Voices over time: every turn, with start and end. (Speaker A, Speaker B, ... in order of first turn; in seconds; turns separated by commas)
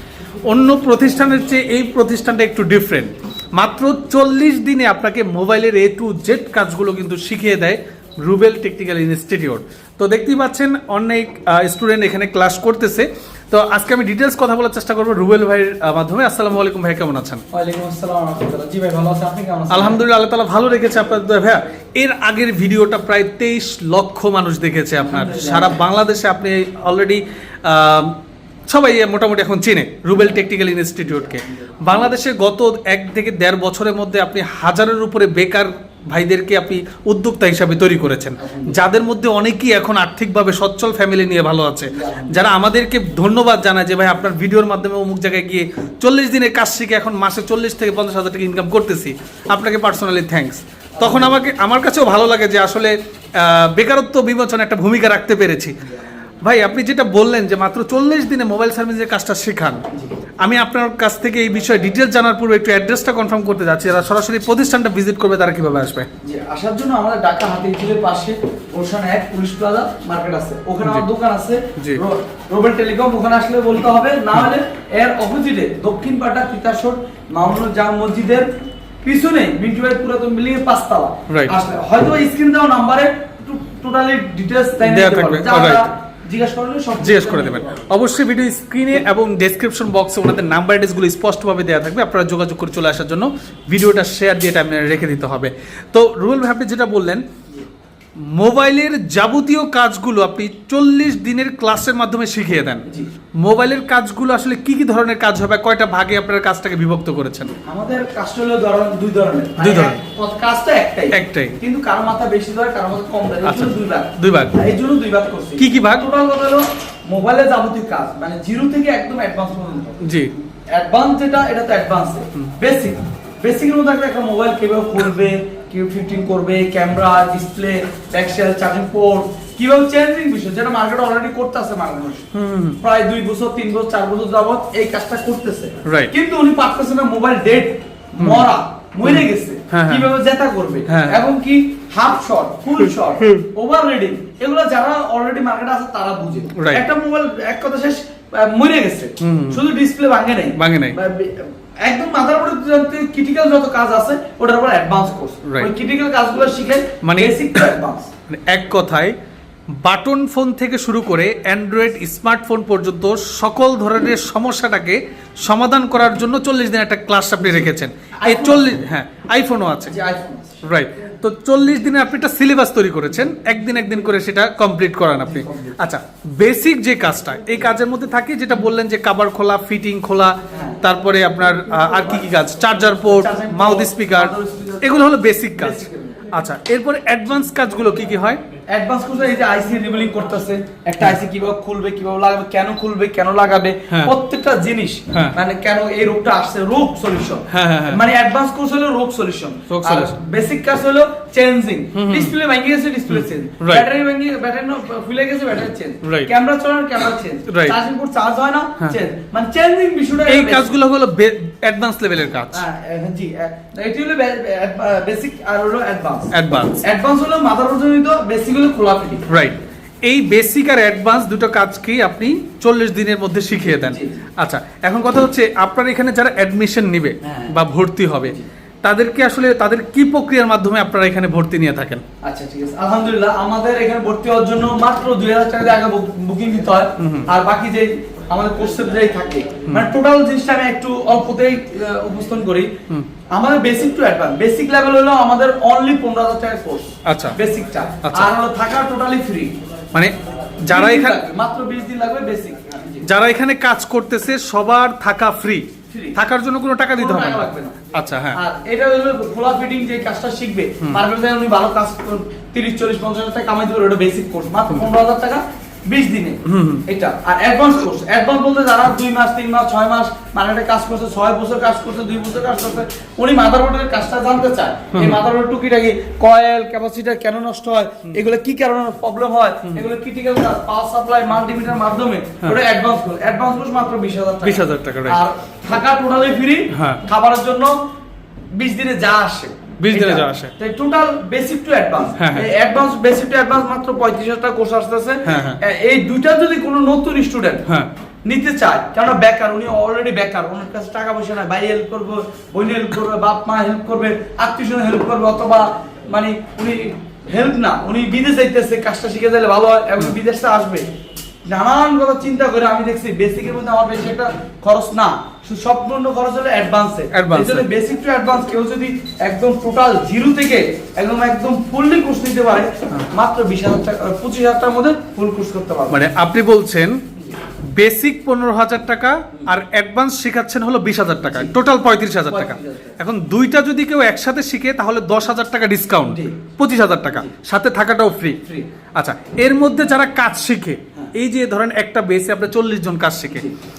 Speaker A: 0.5-17.4, Speaker B: 17.5-20.0, Speaker A: 19.7-28.1, Speaker B: 25.0-25.8, Speaker A: 28.7-55.8, Speaker B: 31.1-32.1, Speaker B: 38.4-38.9, Speaker B: 41.9-42.5, Speaker B: 51.0-51.4, Speaker A: 56.4-59.8, Speaker A: 60.4-66.1, Speaker B: 66.2-78.5, Speaker B: 79.0-87.9, Speaker A: 84.8-85.8, Speaker A: 87.0-97.2, Speaker A: 98.3-102.8, Speaker A: 103.4-107.5, Speaker B: 107.7-120.0, Speaker A: 109.6-110.0, Speaker A: 111.1-111.6, Speaker A: 113.4-114.6, Speaker A: 115.6-116.0, Speaker A: 120.0-120.3, Speaker B: 120.7-132.2, Speaker A: 132.3-132.8, Speaker B: 132.8-158.1, Speaker A: 135.8-136.1, Speaker A: 138.2-138.4, Speaker A: 139.0-140.1, Speaker A: 140.9-141.2, Speaker A: 146.6-146.8, Speaker A: 149.2-149.6, Speaker A: 150.6-150.9, Speaker A: 157.0-157.7, Speaker A: 158.3-159.1, Speaker A: 159.8-169.9, Speaker B: 167.4-167.7, Speaker B: 168.2-168.7, Speaker B: 169.9-170.6, Speaker A: 170.6-185.8, Speaker B: 175.2-175.7, Speaker B: 180.5-180.8, Speaker B: 182.9-186.2, Speaker A: 186.3-188.4, Speaker B: 188.7-210.7, Speaker A: 197.5-198.0, Speaker A: 199.7-200.2, Speaker A: 201.9-202.3, Speaker A: 203.1-203.8, Speaker A: 206.0-206.3, Speaker A: 207.5-207.7, Speaker A: 210.3-212.6, Speaker B: 212.5-216.3, Speaker A: 216.3-216.8, Speaker B: 216.8-219.2, Speaker A: 219.3-232.0, Speaker B: 223.7-224.2, Speaker B: 227.2-227.5, Speaker B: 232.2-242.7, Speaker A: 237.0-237.3, Speaker B: 243.3-249.5, Speaker A: 247.1-247.3, Speaker A: 248.0-248.3, Speaker A: 249.9-251.2, Speaker B: 250.7-253.0, Speaker A: 253.0-258.4, Speaker B: 255.9-256.2, Speaker B: 256.9-257.8, Speaker B: 258.3-287.7, Speaker A: 266.4-266.8, Speaker A: 274.9-275.2, Speaker A: 284.4-285.2, Speaker A: 286.7-287.0, Speaker B: 288.5-297.6, Speaker A: 289.8-290.5, Speaker A: 292.2-292.5, Speaker A: 295.2-295.6, Speaker B: 298.2-310.9, Speaker B: 311.5-326.0, Speaker A: 317.1-317.6, Speaker A: 325.9-327.0, Speaker A: 327.7-338.4, Speaker B: 332.3-332.9, Speaker B: 336.0-336.4, Speaker A: 338.9-343.5